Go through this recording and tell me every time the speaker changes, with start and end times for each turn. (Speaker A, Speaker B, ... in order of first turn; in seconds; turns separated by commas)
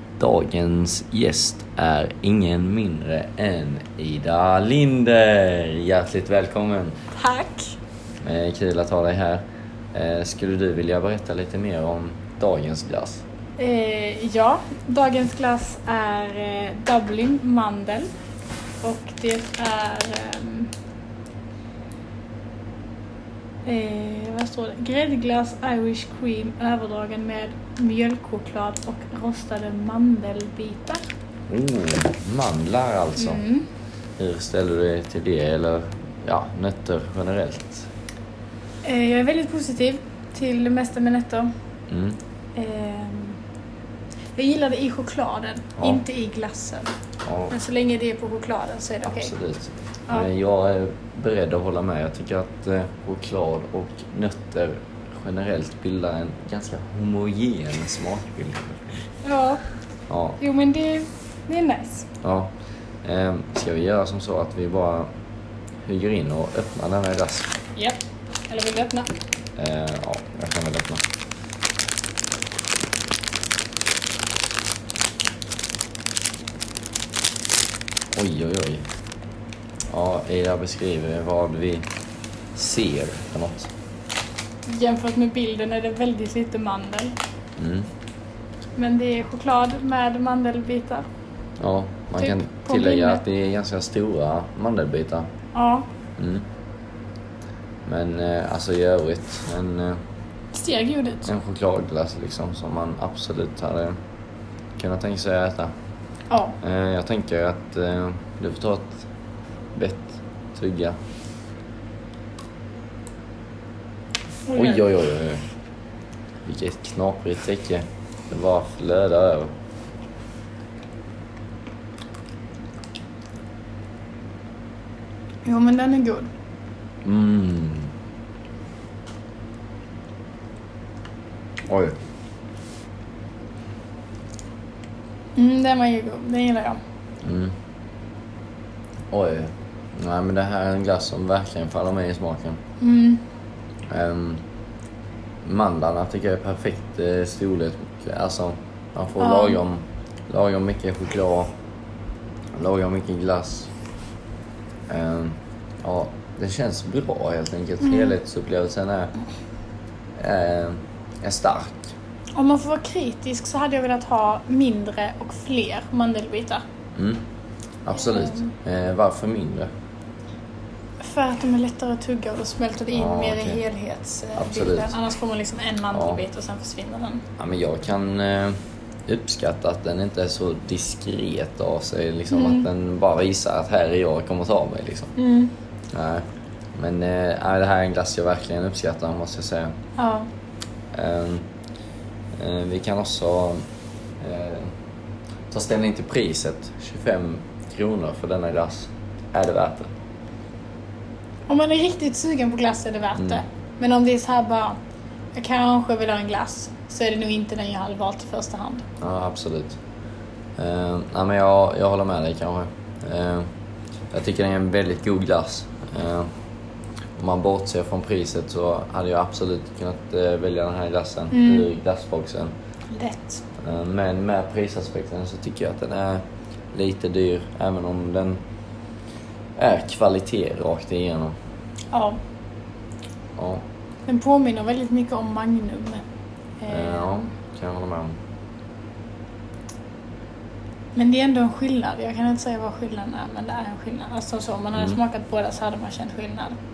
Speaker A: 0.2-7.0, Speaker B: 7.1-7.8, Speaker A: 8.2-13.2, Speaker B: 13.6-18.1, Speaker B: 18.8-20.7, Speaker B: 23.7-31.0, Speaker A: 31.5-33.4, Speaker B: 33.2-33.7, Speaker A: 34.2-37.9, Speaker B: 38.8-41.5, Speaker A: 41.9-42.2, Speaker B: 42.6-43.4, Speaker B: 44.4-46.9, Speaker A: 47.2-47.5, Speaker B: 47.5-49.3, Speaker A: 49.0-59.0, Speaker B: 59.2-59.6, Speaker A: 60.1-60.4, Speaker B: 60.4-62.1, Speaker A: 62.2-62.5, Speaker A: 63.0-65.1, Speaker A: 65.8-67.5, Speaker B: 67.8-69.1, Speaker A: 69.6-71.0, Speaker A: 78.1-78.8, Speaker A: 79.9-81.9, Speaker A: 82.5-83.7, Speaker B: 84.7-87.2, Speaker A: 87.6-87.9, Speaker B: 88.8-91.0, Speaker A: 91.6-95.3, Speaker B: 92.2-93.2, Speaker B: 95.5-95.9, Speaker A: 96.2-96.5, Speaker A: 97.8-100.0, Speaker B: 100.5-101.3, Speaker A: 101.2-104.0, Speaker A: 104.8-105.7, Speaker B: 106.3-106.6, Speaker A: 106.6-109.0, Speaker A: 109.8-111.0, Speaker B: 114.5-114.8, Speaker A: 114.5-115.4, Speaker A: 116.5-119.5, Speaker B: 125.5-126.3, Speaker A: 127.0-127.9, Speaker A: 131.7-132.0, Speaker B: 135.4-136.8, Speaker A: 137.2-137.6, Speaker A: 139.1-142.6, Speaker B: 142.8-143.2, Speaker A: 143.9-144.4, Speaker A: 145.4-151.5, Speaker B: 149.2-149.6, Speaker A: 152.6-153.7, Speaker A: 154.9-159.1, Speaker B: 157.8-158.2, Speaker A: 160.2-161.9, Speaker B: 162.4-166.6, Speaker A: 167.0-167.2, Speaker A: 167.8-169.7, Speaker B: 168.1-168.4, Speaker B: 171.0-177.2, Speaker A: 172.9-173.6, Speaker A: 174.4-174.9, Speaker A: 175.9-176.2, Speaker A: 177.4-185.1, Speaker B: 182.3-182.7, Speaker B: 185.2-185.5, Speaker A: 185.9-186.2, Speaker A: 186.8-189.7, Speaker B: 190.0-190.3, Speaker A: 190.9-191.4, Speaker A: 192.4-193.6, Speaker A: 194.2-194.7, Speaker A: 195.5-199.9, Speaker B: 201.5-204.8, Speaker A: 203.2-203.4, Speaker B: 205.3-208.8, Speaker A: 209.0-209.8, Speaker A: 210.6-213.5, Speaker A: 214.1-216.3, Speaker A: 217.2-222.5, Speaker B: 221.3-221.7, Speaker B: 222.9-223.4, Speaker A: 223.6-228.4, Speaker A: 229.6-231.3, Speaker B: 231.9-232.2, Speaker A: 233.4-233.7, Speaker B: 234.1-236.0, Speaker B: 236.6-237.3, Speaker A: 236.7-238.2, Speaker B: 240.9-246.6